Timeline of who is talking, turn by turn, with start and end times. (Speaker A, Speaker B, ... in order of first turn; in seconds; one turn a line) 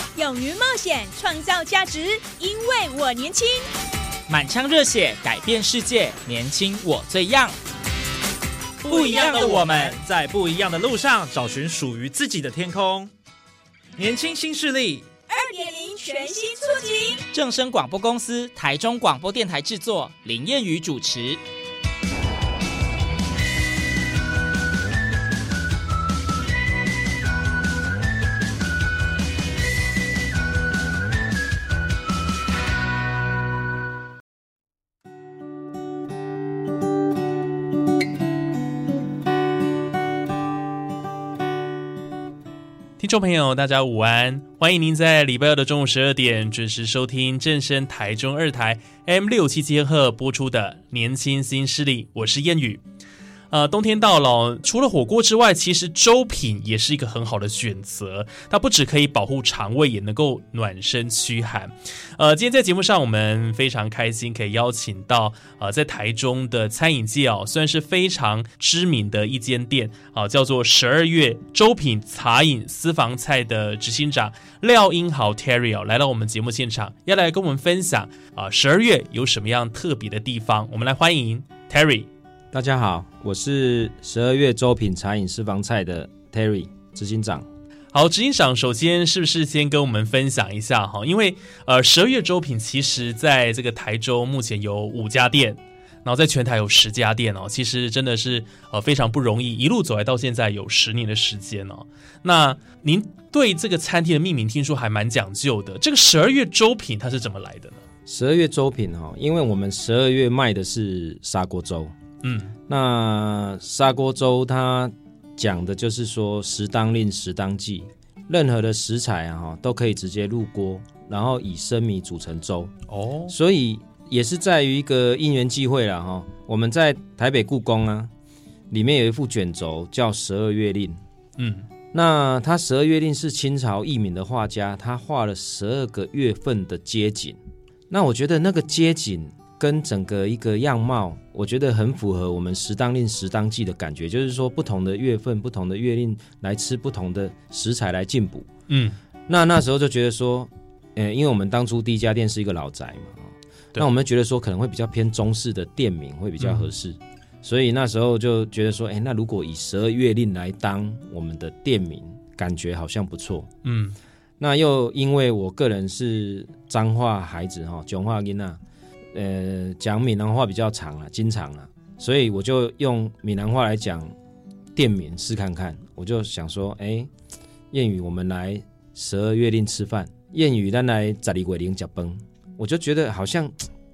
Speaker A: 0.1-3.7
Speaker B: 4.3-7.5
Speaker C: 8.8-13.1
Speaker B: 8.8-10.0
Speaker C: 14.0-15.1
Speaker A: 15.3-17.2
Speaker B: 17.3-21.4
Speaker D: 43.0-52.8
Speaker D: 53.5-82.1
Speaker E: 82.5-87.5
Speaker D: 87.9-107.8
Speaker E: 108.1-111.9
Speaker D: 112.2-112.6
Speaker E: 112.7-122.7
Speaker D: 122.9-123.3
Speaker E: 123.3-128.1
Speaker E: 128.7-131.0
Speaker D: 131.4-131.7
Speaker E: 131.9-137.4
Speaker E: 137.9-148.5
Speaker D: 148.7-149.0
Speaker E: 149.3-163.5
Speaker D: 156.4-156.7
Speaker D: 163.6-164.0
Speaker E: 164.4-168.6
Speaker E: 169.1-174.1
Speaker E: 174.8-177.1
Speaker E: 177.7-183.7